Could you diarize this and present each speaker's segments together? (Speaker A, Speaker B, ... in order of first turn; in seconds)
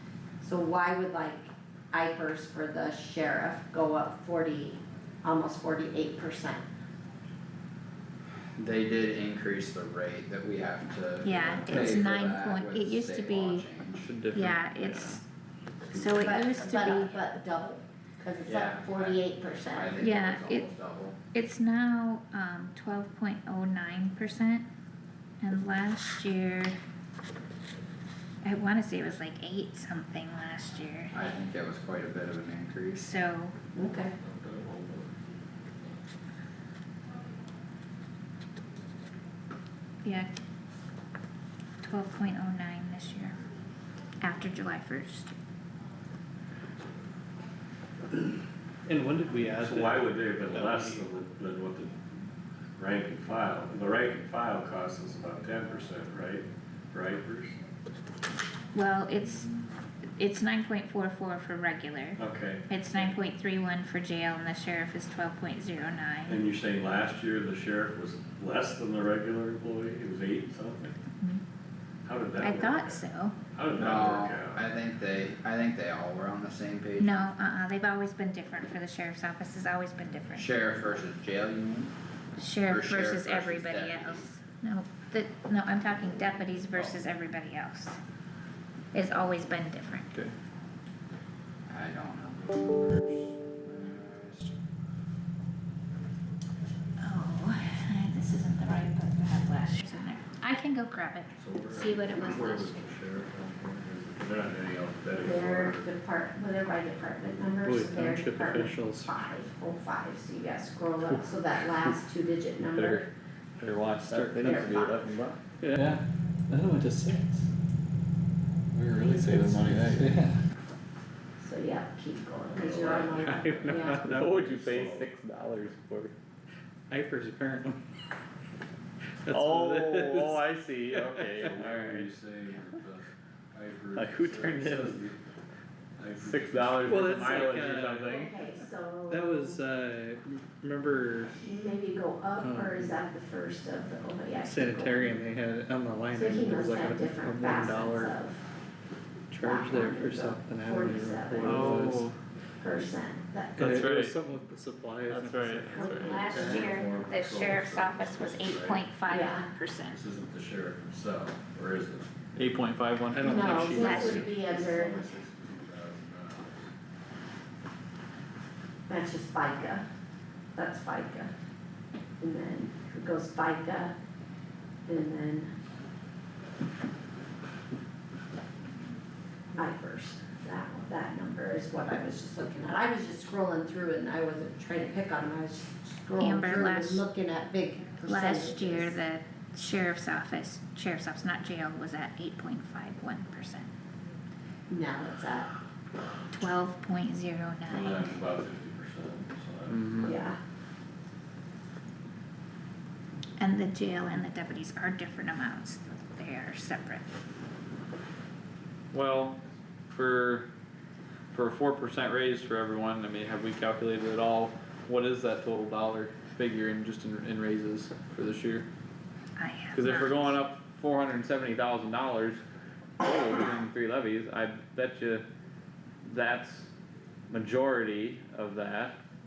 Speaker A: 0.4-6.6, 16.0-20.0, 33.7-34.1, 105.2-113.1, 114.3-115.1, 121.4-124.1, 138.1-139.6, 141.4-145.2, 146.1-148.4, 149.4-151.8, 152.6-153.9, 155.7-156.7, 159.1-159.5, 163.2-165.0, 168.9-169.8, 170.5-171.3, 172.2-173.9, 174.8-175.5, 179.6-188.9, 194.7-195.5, 200.0-200.4
Speaker B: 8.6-14.1, 18.5-21.1, 31.1-33.1, 73.7-77.4, 80.3-81.9, 82.7-84.3, 91.7-94.5
Speaker C: 11.2-13.7, 14.3-15.2, 15.9-17.1, 20.0-20.7, 21.3-24.6, 25.4-26.8, 28.4-31.2, 33.0-33.5, 40.0-40.3, 41.8-43.4, 44.2-45.3, 58.7-59.5, 60.1-66.4, 72.4-73.4, 77.0-81.0, 82.4-88.0, 88.9-90.1, 97.0-102.8, 156.0-160.0, 163.8-164.3, 186.2-187.0, 188.1-193.7, 196.3-198.1, 203.4-207.1, 219.4-220.4
Speaker D: 14.0-15.2, 112.7-113.1, 113.6-116.0, 118.7-120.2, 123.8-126.1, 129.3-132.1, 133.9-135.0, 136.2-138.4, 151.4-152.2, 153.6-154.2, 155.1-156.3, 162.3-163.6, 199.7-200.2, 208.9-209.4, 209.9-210.5, 211.3-218.7, 219.7-222.4, 223.0-225.2, 226.0-226.7, 227.3-228.9
Speaker E: 34.2-35.2, 49.6-52.0, 52.8-57.5, 62.2-62.6, 66.3-71.0, 72.0-73.0, 73.5-74.6, 101.4-105.8, 122.5-125.0, 131.5-135.2, 136.0-137.0, 156.5-158.8, 159.9-162.1, 164.3-166.6, 197.7-199.8
Speaker F: 48.9-51.1, 107.6-109.1, 114.0-114.5, 115.6-117.4, 120.0-120.3, 123.2-124.2, 126.9-127.8, 129.2-131.5, 136.8-138.3, 139.1-141.4, 142.4-142.9, 144.4-148.1, 149.3-152.1, 153.6-156.7, 163.1-164.4